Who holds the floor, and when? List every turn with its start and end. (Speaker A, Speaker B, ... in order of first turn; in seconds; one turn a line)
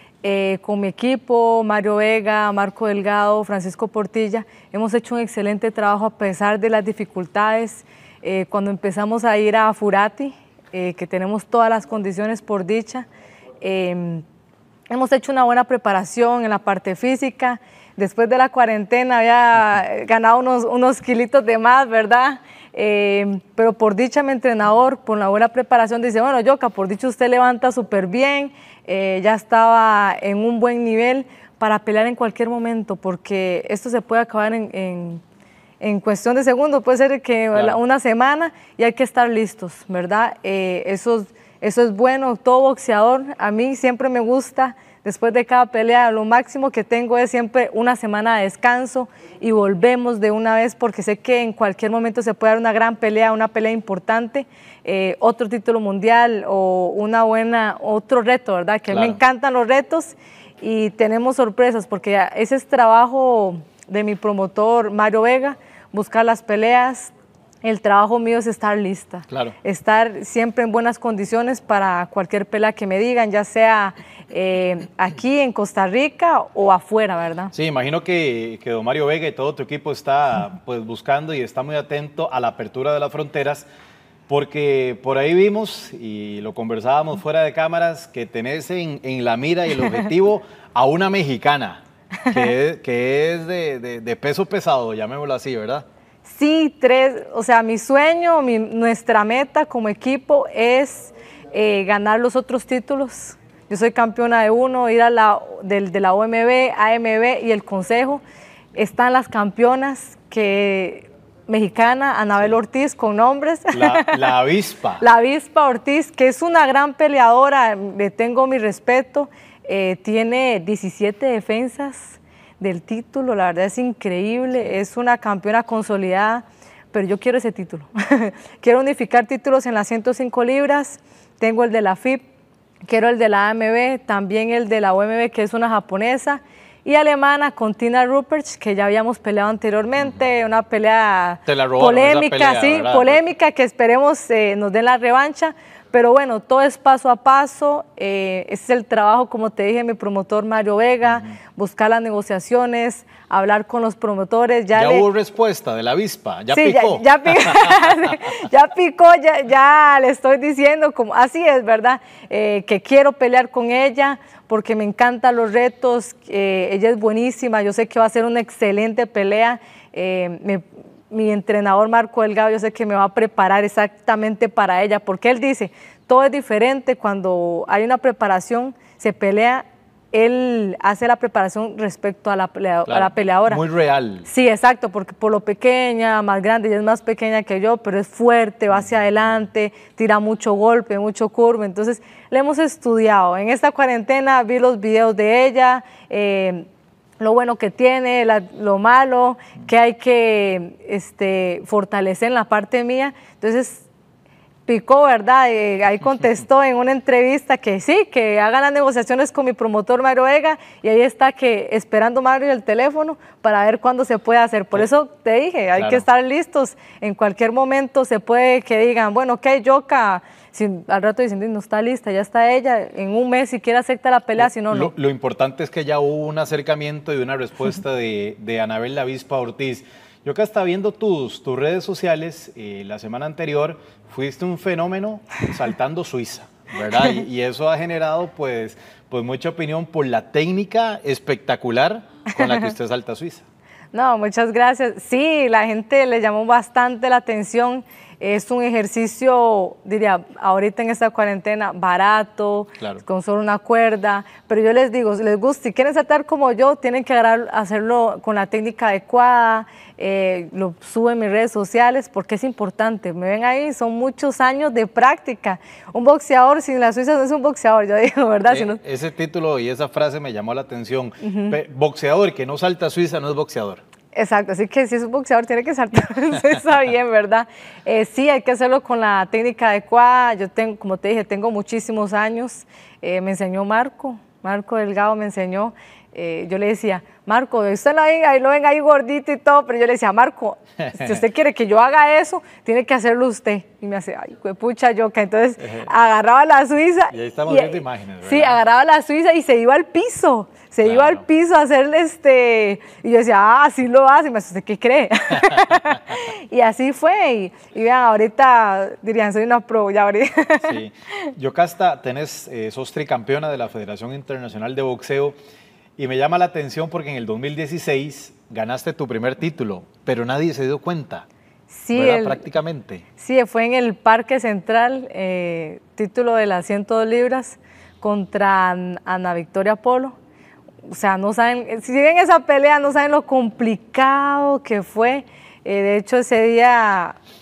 Speaker A: 0.2-13.1
Speaker A: 13.6-14.2
Speaker A: 14.9-35.2
Speaker A: 35.8-77.5
Speaker B: 58.9-59.2
Speaker B: 77.5-83.7
Speaker B: 84.3-95.8
Speaker A: 96.2-108.2
Speaker A: 108.7-114.3
Speaker B: 113.7-115.0
Speaker A: 115.0-132.2
Speaker A: 132.9-155.1
Speaker B: 141.4-143.2
Speaker B: 154.7-157.9
Speaker A: 156.5-183.6
Speaker B: 182.9-184.3
Speaker A: 184.2-196.6
Speaker A: 197.2-203.8
Speaker A: 204.7-224.9
Speaker B: 215.7-216.0
Speaker B: 224.4-243.4
Speaker A: 236.9-237.2
Speaker A: 243.9-268.8
Speaker B: 268.5-273.8
Speaker A: 271.2-271.6
Speaker A: 274.1-310.8
Speaker B: 295.6-295.9
Speaker B: 297.1-298.6
Speaker B: 300.8-301.2
Speaker B: 310.6-315.4
Speaker B: 316.0-321.2
Speaker A: 321.7-322.4
Speaker B: 321.9-323.0
Speaker A: 323.2-330.1
Speaker A: 330.9-337.2